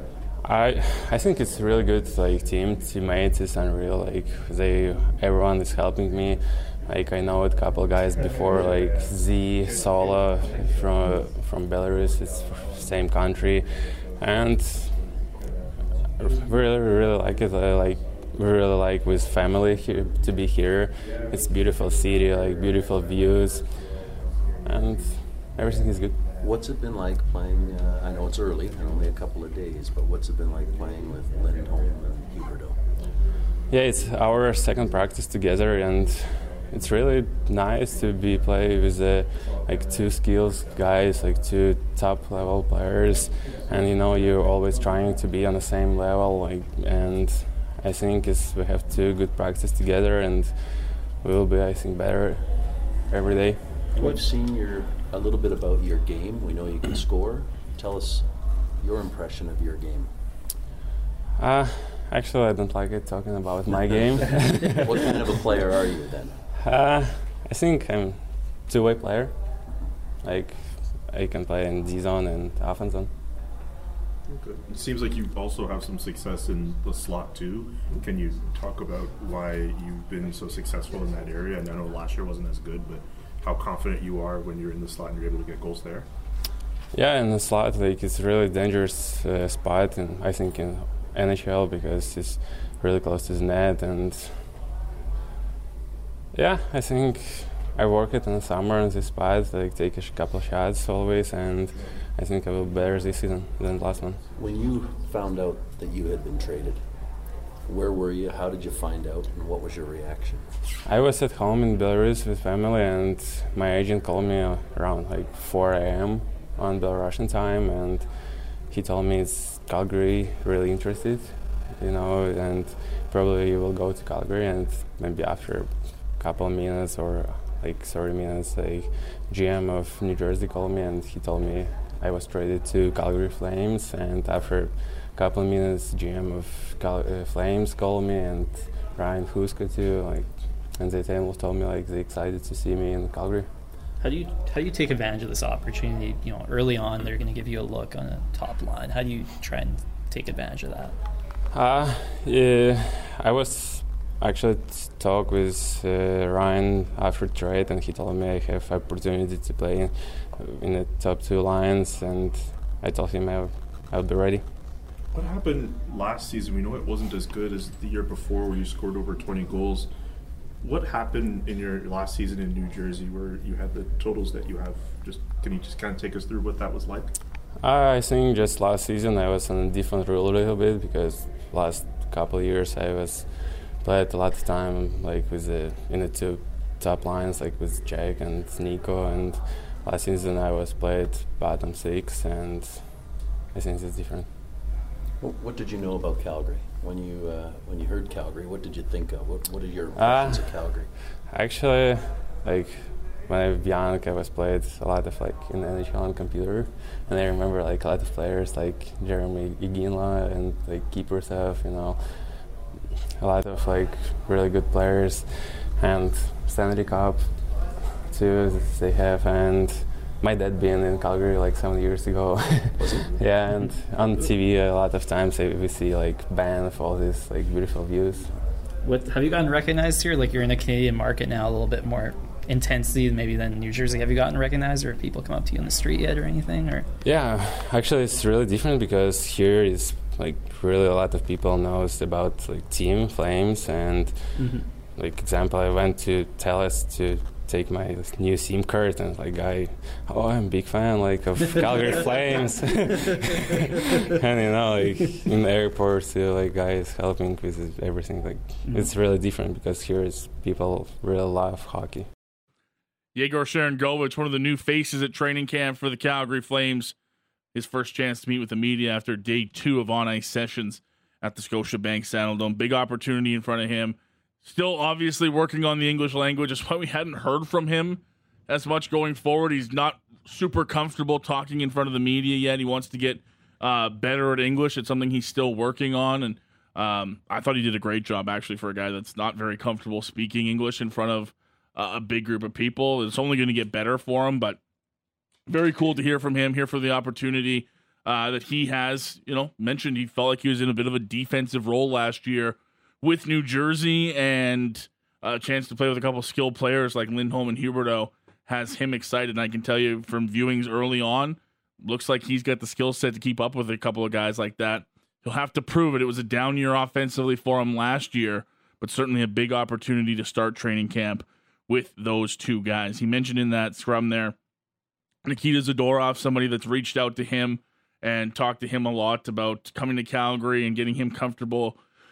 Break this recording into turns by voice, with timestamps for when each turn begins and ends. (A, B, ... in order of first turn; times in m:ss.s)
0:00.4-0:13.7 A
0:14.2-0:15.0 A
0:16.2-0:23.6 A
0:24.6-0:26.2 A
0:26.4-0:32.8 B
0:33.7-0:53.6 A
0:54.0-0:58.3 B
0:58.8-1:00.1 B
1:01.4-1:05.1 A
1:03.9-1:06.4 B
1:06.6-1:09.4 A
1:10.2-1:13.1 A
1:14.4-1:26.1 C
1:26.9-1:34.4 A
1:36.3-1:44.2 A
1:44.4-1:46.8 B
1:47.7-1:50.5 B
1:50.8-1:58.1 A
1:58.7-2:23.5 A
2:24.0-2:31.0 D
2:31.5-2:44.4 A
2:45.1-2:49.9 C
2:50.6-2:57.1 C
2:57.6-3:14.3 A
3:15.2-3:20.9 B
3:20.0-3:20.5 A
3:21.3-3:32.4 A
3:33.2-3:48.3 A
3:42.8-3:43.1 B
3:48.8-3:56.9 D
3:57.0-4:22.1 A
4:04.4-4:04.6 D
4:23.2-4:26.9 E
4:27.5-4:54.6 E
4:55.5-5:24.4 E
5:25.2-5:31.8 E